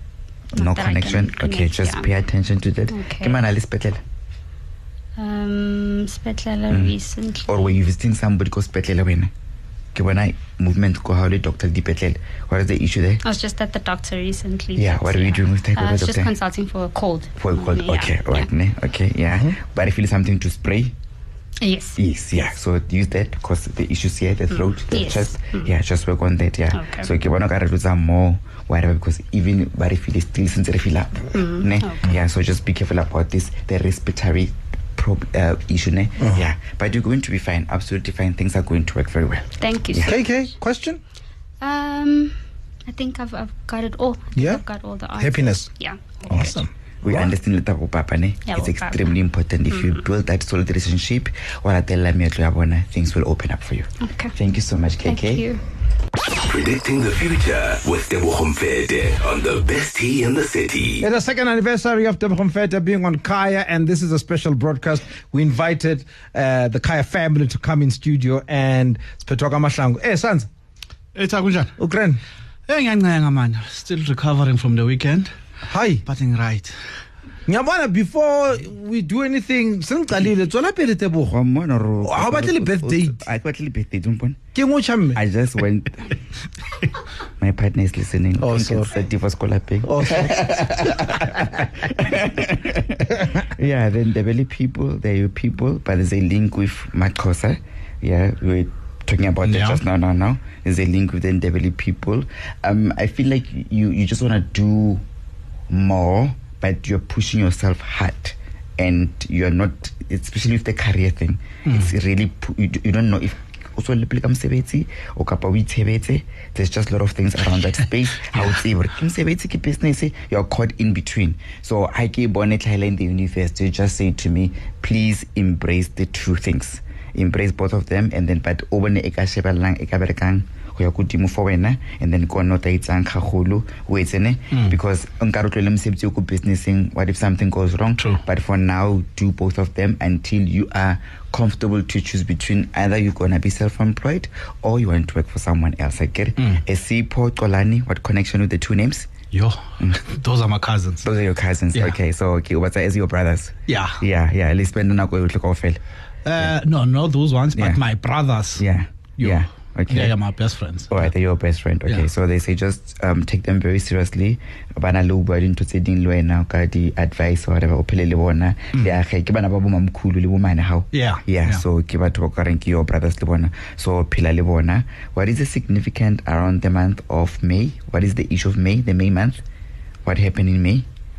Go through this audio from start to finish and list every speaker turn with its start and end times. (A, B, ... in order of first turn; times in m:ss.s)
0:00.5-0:04.0 A
0:00.6-0:02.1 B
0:02.9-0:03.4 B
0:05.2-0:07.8 B
0:06.7-0:06.9 A
0:07.4-0:09.3 A
0:09.9-0:13.2 A
0:13.2-0:18.5 B
0:14.8-0:16.3 A
0:17.4-0:20.9 A
0:21.6-0:22.0 B
0:22.0-0:40.2 A
0:24.5-0:25.7 B
0:26.7-0:27.1 B
0:31.3-0:32.1 B
0:39.6-0:40.3 B
0:40.0-0:41.0 C
0:41.6-0:42.3 B
0:42.8-0:46.6 B
0:44.4-0:44.6 C
0:45.2-0:45.7 C
0:46.3-0:47.3 C
0:47.0-0:55.4 A
0:48.4-0:49.1 B
0:49.7-0:50.0 B
0:54.0-0:54.3 B
0:55.0-0:55.6 B
0:56.4-1:01.1 D
1:01.0-1:10.5 C
1:11.1-1:11.7 E
1:11.8-1:12.2 C
1:12.7-1:15.3 E
1:15.7-1:16.0 C
1:16.0-1:16.8 E
1:17.5-1:21.4 C
1:21.3-1:24.4 A
1:22.0-1:23.2 C
1:24.5-1:25.2 C
1:25.1-1:26.2 A
1:27.4-1:45.0 A
1:28.4-1:29.0 C
1:29.8-1:31.7 C
1:33.1-1:33.4 C
1:39.4-1:39.8 E
1:45.7-2:29.1 A
1:51.7-1:51.9 E
1:58.3-1:58.6 E
2:29.3-2:31.0 E
2:31.0-2:35.8 A
2:33.7-2:34.0 E
2:36.2-2:38.6 E
2:37.5-2:37.8 A
2:38.6-2:40.2 A
2:39.2-2:41.1 E
2:40.9-2:59.4 A
2:50.9-2:51.6 E
3:00.0-3:00.8 A